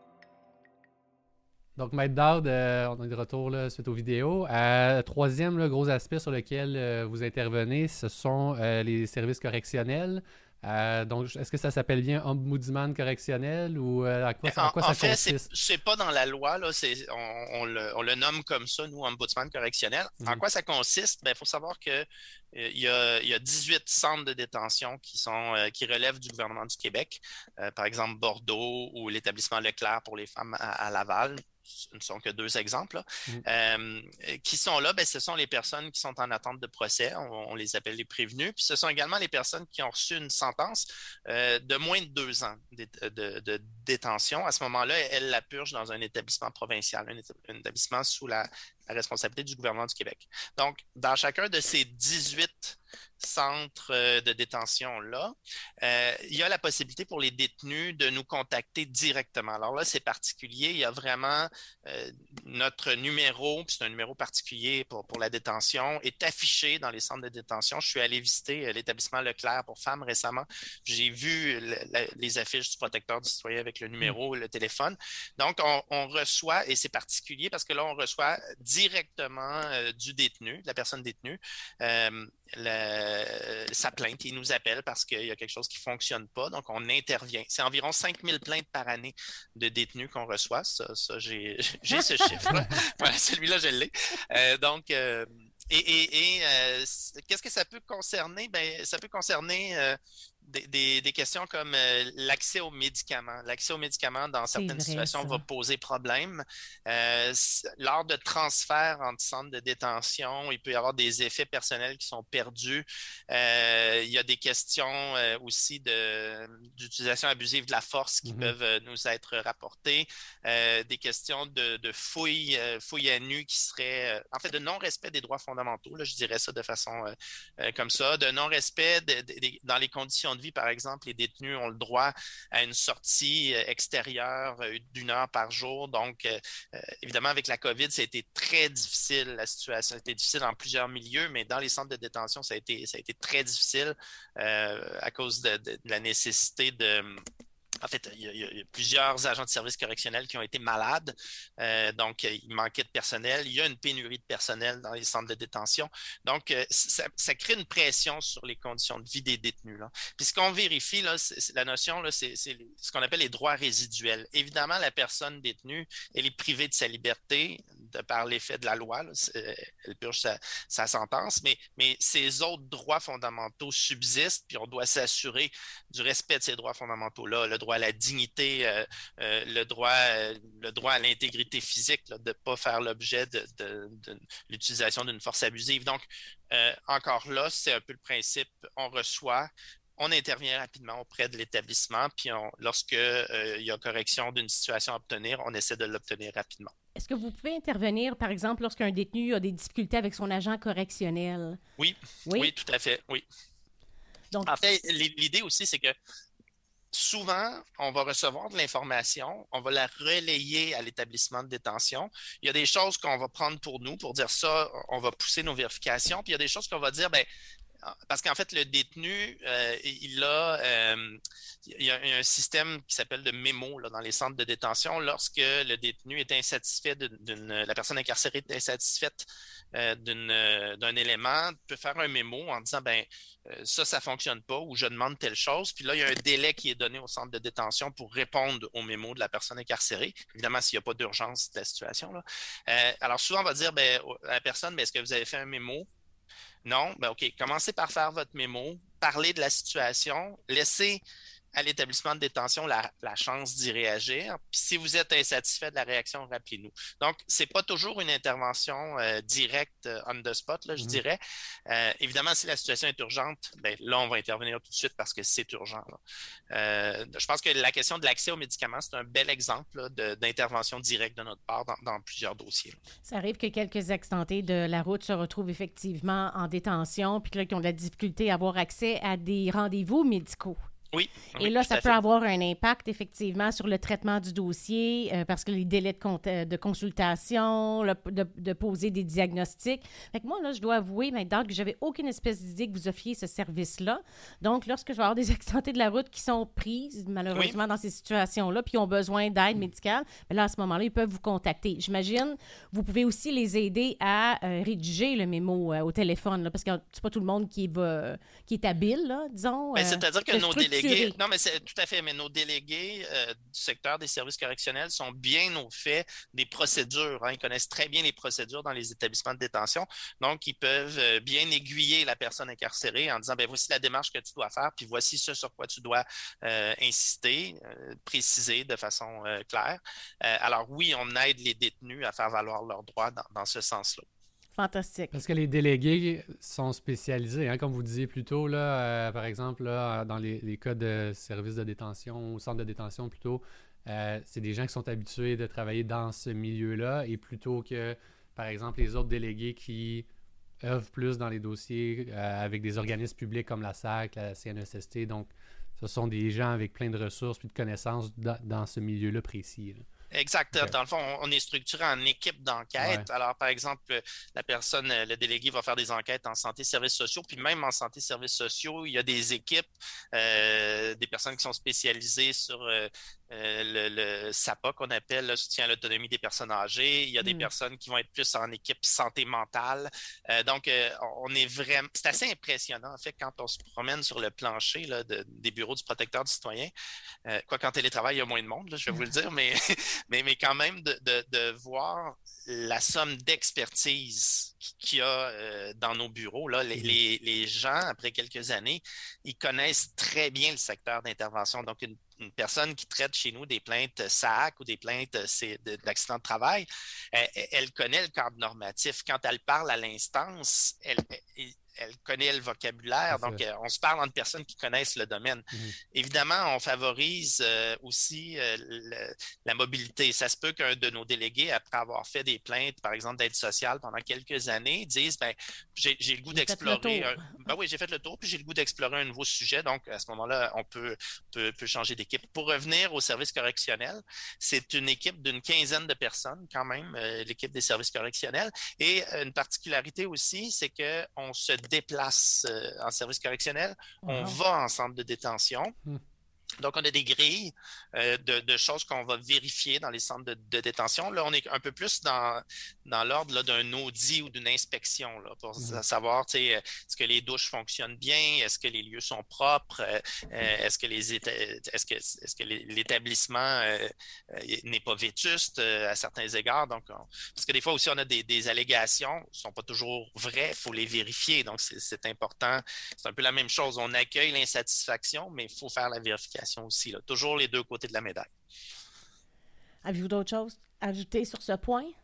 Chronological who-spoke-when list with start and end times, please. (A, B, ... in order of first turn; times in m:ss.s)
0:01.8-0:15.5 A
0:14.5-2:27.2 B
1:31.9-1:32.5 C
1:44.6-1:45.4 C
1:58.2-1:58.5 A
2:27.8-3:16.7 B
3:17.0-3:21.6 C
3:21.8-3:23.2 B
3:22.3-3:22.5 C
3:24.5-3:26.0 B
3:26.9-3:37.3 B
3:37.8-4:05.9 B
4:06.6-4:11.0 B
4:11.6-4:26.0 B
4:26.5-4:32.8 B
4:33.0-4:40.6 C
4:40.9-4:42.0 B
4:41.4-5:11.2 C
5:09.8-5:34.1 B
5:34.6-5:35.1 C
5:35.1-5:50.1 A
5:50.6-5:59.9 A
6:00.1-6:26.7 B
6:02.8-6:03.1 A
6:17.2-6:17.5 C
6:27.3-7:25.8 B
6:53.1-6:53.4 A
7:06.3-7:07.3 C
7:24.0-7:24.4 C
7:26.6-7:58.3 B
7:59.8-8:01.9 C